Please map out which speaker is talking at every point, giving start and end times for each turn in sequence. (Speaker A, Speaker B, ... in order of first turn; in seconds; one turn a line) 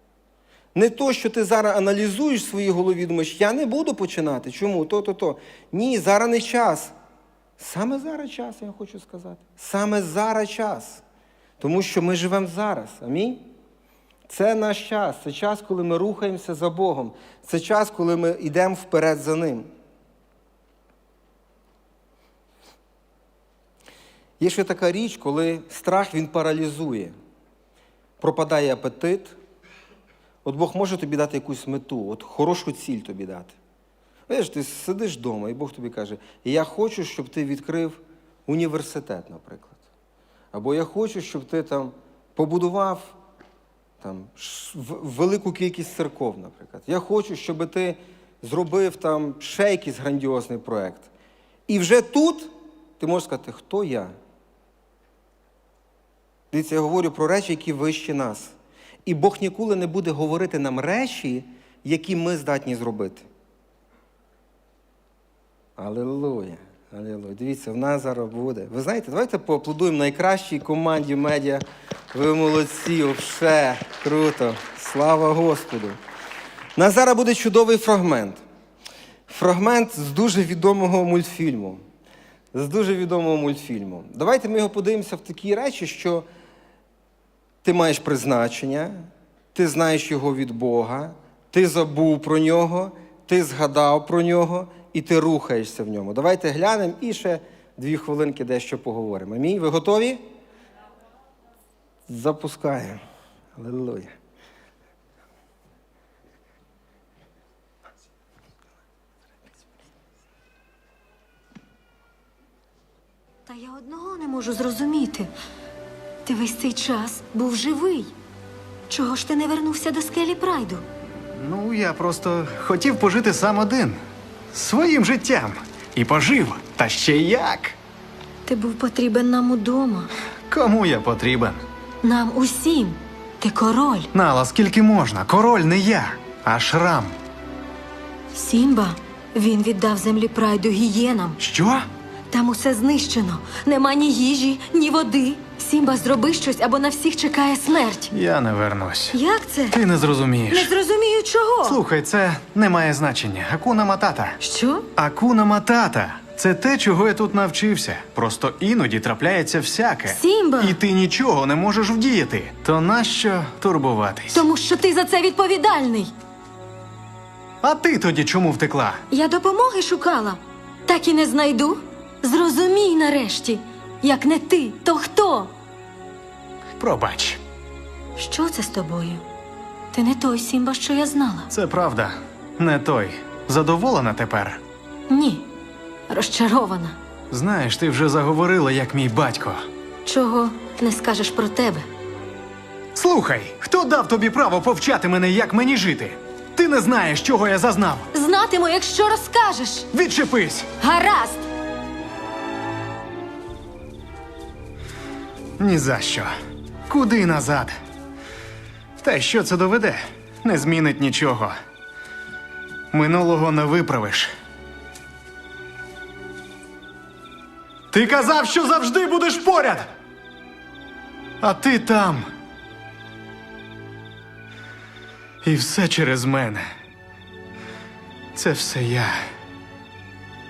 Speaker A: 0.7-6.9
Speaker A: 7.6-11.0
Speaker A: 11.6-13.4
Speaker A: 14.3-19.7
Speaker A: 24.4-27.1
Speaker A: 28.2-29.4
Speaker A: 30.4-33.5
Speaker A: 34.3-39.8
Speaker A: 40.5-43.1
Speaker A: 44.0-51.1
Speaker A: 51.7-54.1
Speaker A: 56.5-58.5
Speaker A: 59.0-63.3
Speaker A: 65.8-76.0
Speaker A: 76.8-78.4
Speaker A: 79.3-81.8
Speaker A: 82.5-86.2
Speaker A: 87.6-100.2
Speaker A: 102.1-103.0
Speaker A: 103.5-104.1
Speaker B: 113.5-115.3
Speaker B: 116.2-118.1
Speaker B: 118.9-120.8
Speaker C: 121.3-124.0
Speaker C: 124.5-127.8
Speaker B: 128.5-130.1
Speaker C: 130.5-131.6
Speaker B: 132.0-134.1
Speaker C: 134.1-137.2
Speaker B: 138.3-141.4
Speaker C: 141.4-141.9
Speaker B: 142.3-148.1
Speaker C: 148.1-149.2
Speaker B: 149.1-149.8
Speaker C: 149.7-150.7
Speaker B: 150.5-151.8
Speaker C: 151.6-154.4
Speaker B: 154.4-154.9
Speaker C: 154.9-164.4
Speaker B: 160.1-160.8
Speaker B: 164.3-166.1
Speaker C: 167.6-169.0
Speaker B: 169.1-175.5
Speaker C: 176.8-177.4
Speaker B: 178.2-179.2
Speaker B: 179.9-181.5
Speaker C: 181.5-184.6
Speaker B: 185.1-185.4
Speaker B: 186.1-186.9
Speaker C: 187.3-189.6
Speaker B: 190.0-191.8
Speaker C: 192.9-198.1
Speaker B: 198.1-199.9
Speaker C: 199.9-200.7
Speaker B: 200.8-201.4
Speaker C: 205.6-206.3
Speaker C: 206.9-207.7
Speaker C: 209.0-211.6
Speaker C: 212.9-214.3
Speaker C: 217.9-219.9
Speaker C: 221.4-222.3
Speaker C: 225.4-226.7
Speaker C: 228.3-229.2